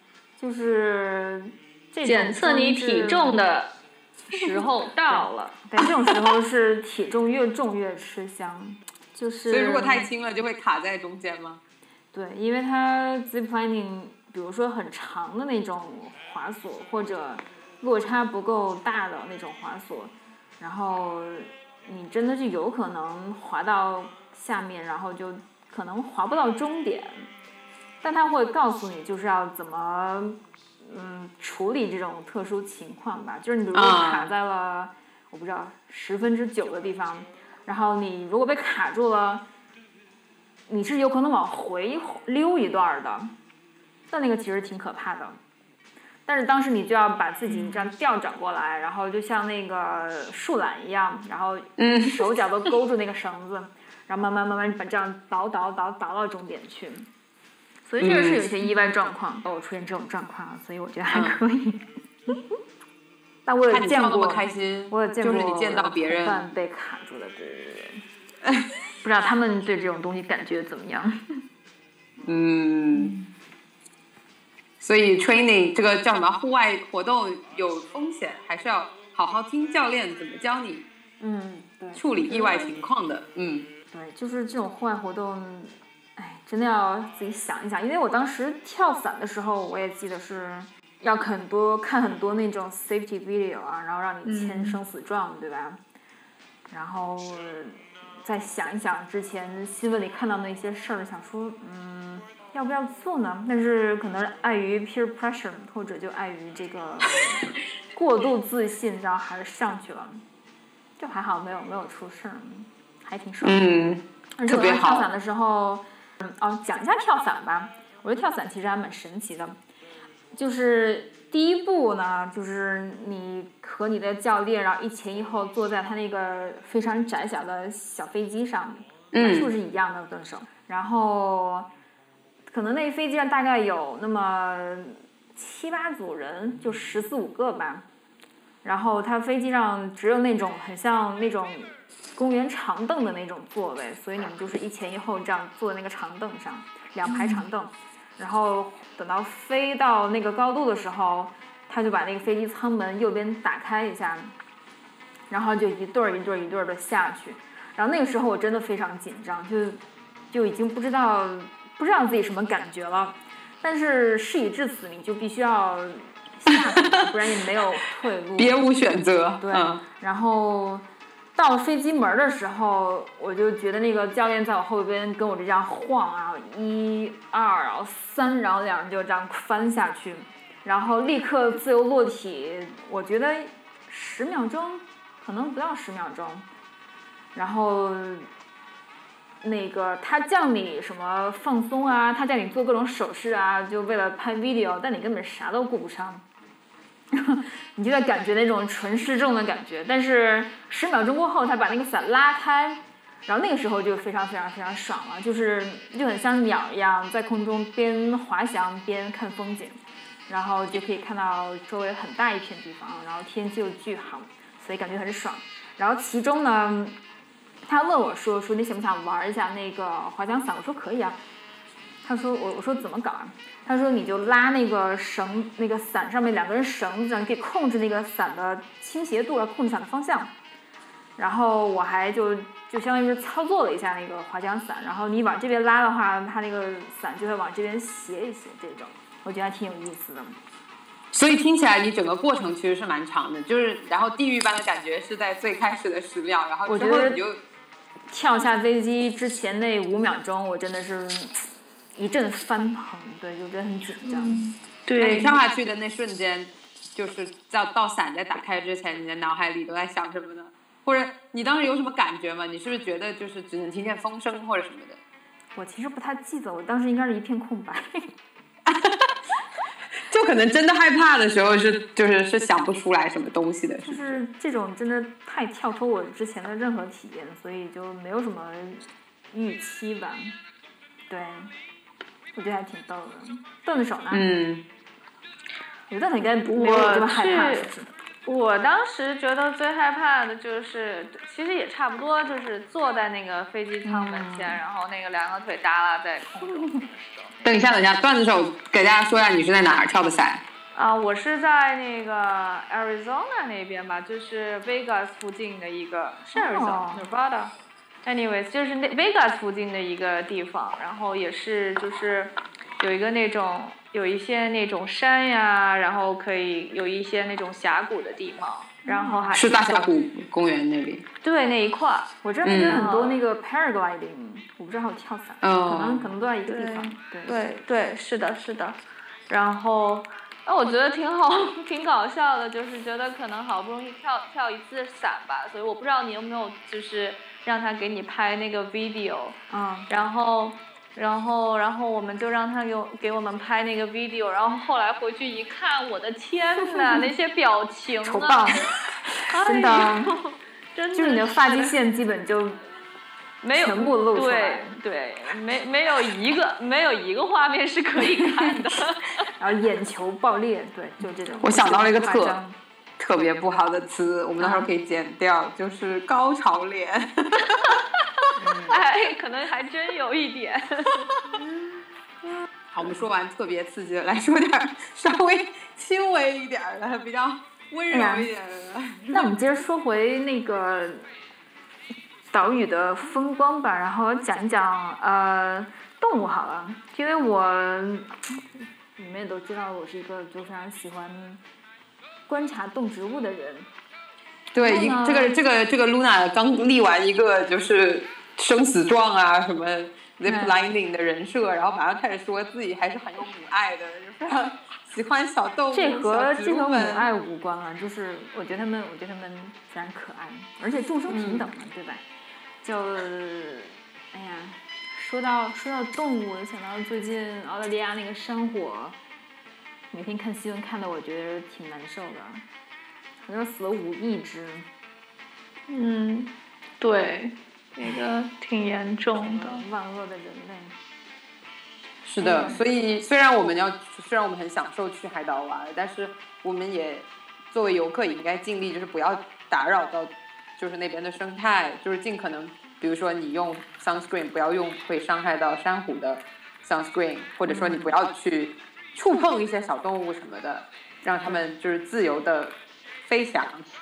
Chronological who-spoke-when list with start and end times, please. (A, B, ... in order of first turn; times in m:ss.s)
0:00.4-0:03.4 A
0:02.0-0:03.7 B
0:04.3-0:10.1 A
0:04.3-0:05.6 B
0:09.5-0:11.6 C
0:12.1-0:27.3 A
0:28.0-0:39.4 A
0:33.7-0:34.3 C
0:40.7-0:43.3 A
0:44.1-0:45.4 A
0:46.3-0:57.1 A
0:51.8-0:52.2 C
0:57.8-1:02.4 A
0:58.0-0:58.7 C
1:01.1-1:01.4 C
1:03.5-1:08.0 A
1:03.7-1:06.4 C
1:09.0-1:11.4 A
1:12.2-1:13.2 C
1:12.9-1:13.3 A
1:14.8-1:20.9 C
1:21.2-1:22.7 A
1:22.0-1:23.7 C
1:23.9-1:35.8 A
1:34.2-1:34.8 B
1:36.7-1:50.2 A
1:51.0-1:53.7 A
1:53.4-1:55.1 C
1:54.4-1:59.6 A
2:00.3-2:11.7 A
2:09.1-2:09.5 C
2:12.5-2:17.8 A
2:18.6-2:34.4 A
2:35.3-2:48.6 A
2:46.5-2:47.1 C
2:48.4-2:49.8 C
2:49.4-3:06.5 A
3:07.4-3:08.3 A
3:09.4-3:16.2 A
3:17.1-3:37.0 A
3:37.6-3:41.2 A
3:42.0-3:50.3 A
3:51.2-4:00.4 A
4:01.1-4:07.4 C
4:06.7-4:07.2 A
4:08.1-4:14.5 A
4:14.0-4:15.3 B
4:15.0-4:25.0 C
4:25.6-4:28.1 A
4:28.7-4:29.1 C
4:30.1-4:34.2 C
4:33.8-4:40.4 A
4:41.1-4:41.5 A
4:42.4-4:44.2 A
4:44.1-4:44.6 C
4:45.9-4:47.9 A
4:46.5-4:47.7 B
4:48.3-4:57.4 B
4:53.8-4:54.6 A
4:57.4-5:00.4 C
5:00.7-5:07.5 B
5:06.3-5:07.0 A
5:08.0-5:19.5 B
5:18.9-5:19.9 A
5:19.3-5:21.0 C
5:21.2-5:23.2 B
5:22.2-5:27.4 A
5:22.4-5:22.8 C
5:25.4-5:26.1 C
5:26.5-5:28.8 B
5:29.3-5:39.4 B
5:39.5-5:39.9 A
5:39.9-5:48.5 B
5:46.6-5:47.0 A
5:48.0-5:50.1 A
5:49.3-5:51.8 B
5:50.9-5:52.6 A
5:53.4-5:59.2 B
5:53.5-5:54.8 A
5:58.0-5:58.8 A
5:59.4-6:02.6 A
6:01.4-6:02.4 C
6:03.0-6:07.8 C
6:04.4-6:04.7 A
6:08.4-6:08.8 A
6:08.7-6:11.0 B
6:12.7-6:19.3 C
6:17.9-6:18.3 A
6:19.1-6:21.1 A
6:22.3-6:31.4 A
6:32.3-6:33.7 A
6:34.5-6:47.1 C
6:34.6-6:35.4 A
6:40.2-6:40.6 A
6:45.7-6:52.0 A
6:51.1-6:51.5 C
6:52.6-6:59.0 A
6:59.9-7:02.4 A
7:03.2-7:04.7 A
7:05.7-7:09.6 B
7:09.1-7:10.8 A
7:12.1-7:32.5 C
7:12.2-7:12.6 A
7:27.5-7:27.9 A
7:31.2-7:31.5 A
7:33.1-7:33.7 C